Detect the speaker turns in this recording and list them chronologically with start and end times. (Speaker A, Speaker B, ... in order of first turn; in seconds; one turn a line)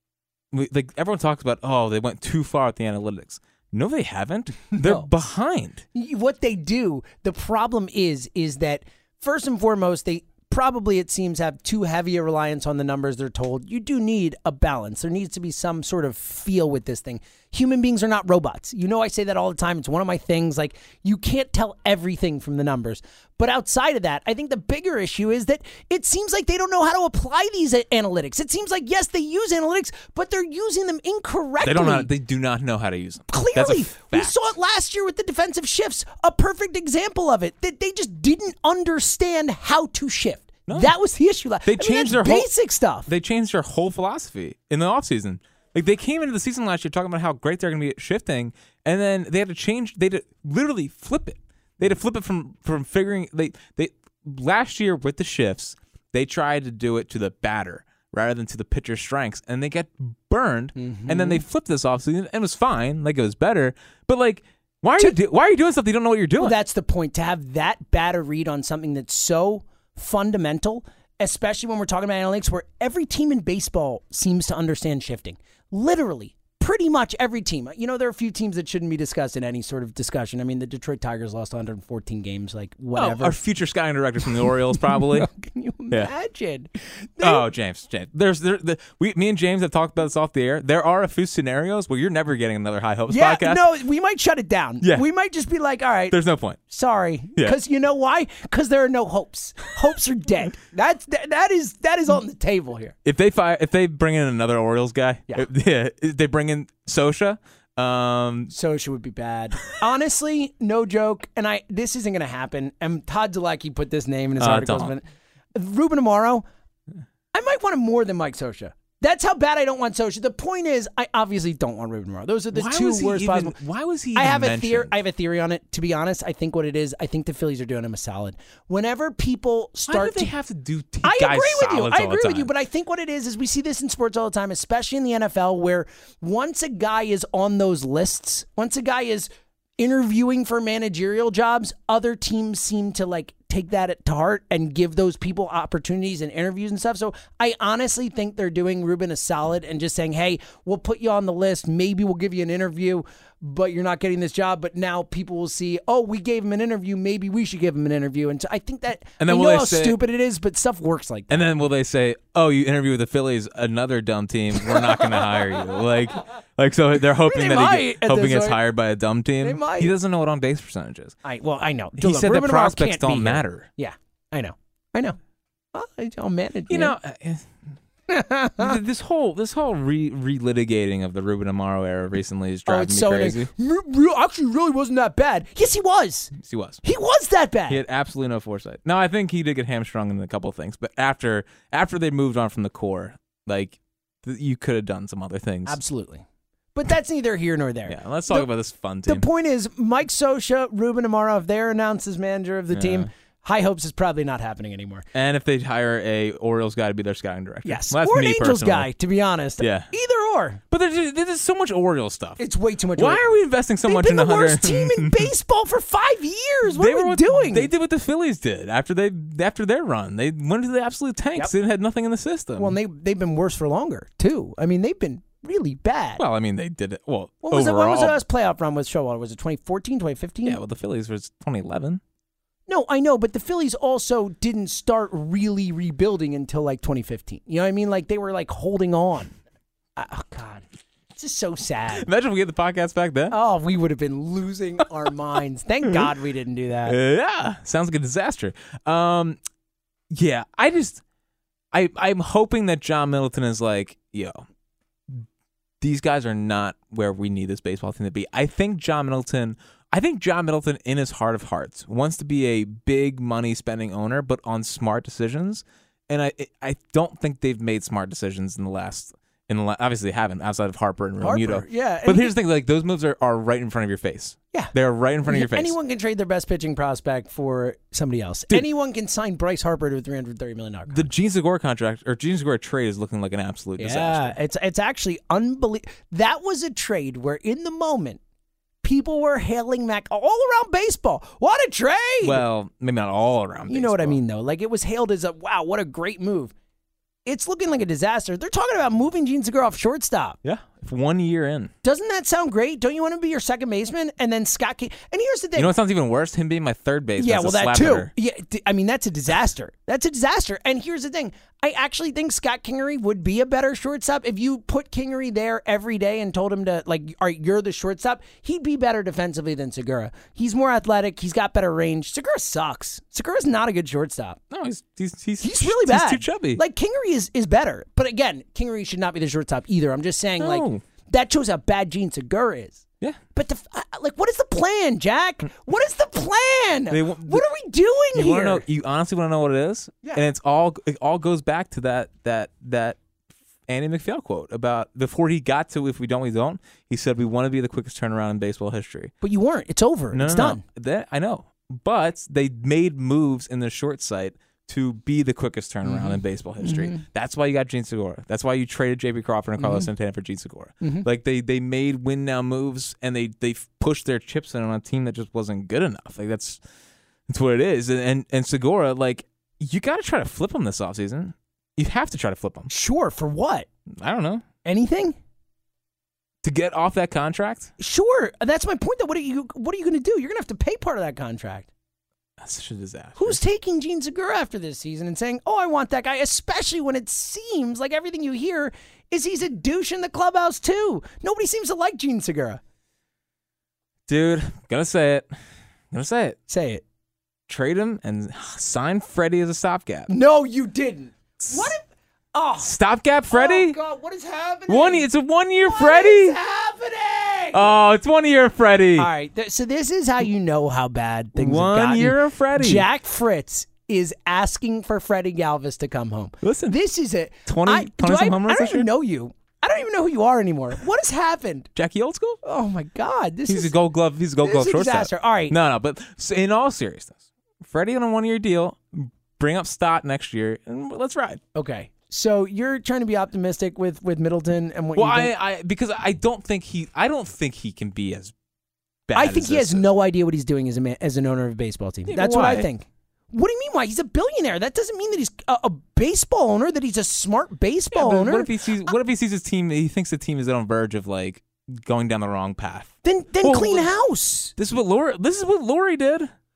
Speaker A: 0.5-5.8
Speaker B: 4.7-5.1
Speaker B: 5.9-32.1
Speaker A: 31.6-34.4
Speaker B: 33.3-43.1
Speaker A: 40.7-40.9
Speaker A: 41.6-42.5
Speaker A: 43.1-66.6
Speaker B: 60.8-61.4
Speaker B: 66.4-83.4
Speaker A: 82.9-85.3
Speaker B: 84.8-87.5
Speaker A: 87.2-93.6
Speaker B: 93.1-96.2
Speaker A: 96.1-96.6
Speaker B: 96.7-102.9
Speaker A: 103.0-108.5
Speaker B: 108.5-115.0
Speaker A: 114.4-114.9
Speaker B: 115.5-116.4
Speaker B: 117.3-123.6
Speaker A: 122.5-125.0
Speaker B: 124.1-130.3
Speaker A: 129.9-132.5
Speaker B: 131.0-161.5
Speaker A: 159.2-160.0
Speaker A: 161.3-171.2
Speaker B: 164.7-165.3
Speaker B: 167.2-168.6
Speaker B: 169.4-169.9
Speaker B: 171.2-175.2
Speaker A: 172.0-173.7
Speaker B: 175.7-176.9
Speaker A: 176.7-177.6
Speaker B: 178.1-178.8
Speaker A: 178.6-183.5
Speaker B: 182.7-187.8
Speaker A: 186.3-186.8
Speaker A: 187.7-195.8
Speaker B: 195.7-196.2
Speaker B: 196.7-198.5
Speaker A: 197.9-199.2
Speaker B: 199.1-205.1
Speaker A: 202.7-203.1
Speaker A: 205.1-208.9
Speaker B: 207.6-210.6
Speaker A: 209.6-209.9
Speaker A: 210.7-212.4
Speaker B: 212.4-213.2
Speaker A: 212.9-215.3
Speaker B: 213.8-217.7
Speaker A: 216.7-222.8
Speaker B: 222.6-226.2
Speaker A: 226.2-228.2
Speaker B: 227.4-230.6
Speaker A: 230.4-232.0
Speaker B: 232.7-239.3
Speaker B: 239.9-240.6
Speaker B: 241.2-242.1
Speaker A: 241.9-243.3
Speaker B: 243.3-247.0
Speaker A: 246.8-249.4
Speaker A: 250.1-251.0
Speaker A: 251.7-254.4
Speaker A: 255.8-275.8
Speaker B: 271.2-272.3
Speaker B: 275.2-281.1
Speaker A: 280.9-284.4
Speaker B: 283.8-288.2
Speaker B: 288.8-292.4
Speaker A: 292.2-294.2
Speaker B: 293.7-296.5
Speaker B: 297.2-300.4
Speaker A: 300.4-301.7
Speaker B: 301.8-305.7
Speaker A: 305.6-308.1
Speaker B: 307.2-324.4
Speaker A: 324.5-326.6
Speaker B: 325.4-332.8
Speaker A: 330.4-330.8
Speaker B: 333.3-338.6
Speaker A: 336.9-337.4
Speaker A: 338.1-343.0
Speaker A: 343.7-349.1
Speaker B: 349.2-350.6
Speaker A: 350.1-366.6
Speaker B: 355.8-357.0
Speaker B: 359.6-359.9
Speaker B: 360.8-361.1
Speaker A: 367.3-372.7
Speaker B: 372.7-373.7
Speaker A: 373.9-374.4
Speaker B: 374.6-375.1
Speaker A: 376.4-377.7
Speaker B: 377.8-381.7
Speaker A: 382.4-383.4
Speaker B: 383.1-392.6
Speaker A: 394.1-395.3
Speaker A: 395.9-396.4
Speaker B: 396.5-396.8
Speaker A: 397.5-400.1
Speaker B: 400.1-401.8
Speaker A: 401.4-401.7
Speaker B: 402.3-402.7
Speaker A: 402.6-403.8
Speaker B: 403.3-405.1
Speaker A: 404.7-406.4
Speaker B: 405.6-407.8
Speaker A: 407.5-409.1
Speaker B: 409.0-421.7
Speaker A: 411.4-412.9
Speaker A: 416.4-416.8
Speaker A: 417.5-418.9
Speaker A: 421.7-422.4
Speaker B: 422.4-423.7
Speaker A: 423.5-431.4
Speaker B: 424.4-425.6
Speaker B: 431.5-435.3
Speaker A: 434.9-438.3
Speaker A: 439.1-439.8
Speaker B: 439.1-448.5
Speaker A: 442.1-442.7
Speaker A: 447.9-453.9
Speaker B: 453.0-454.5
Speaker A: 454.6-456.3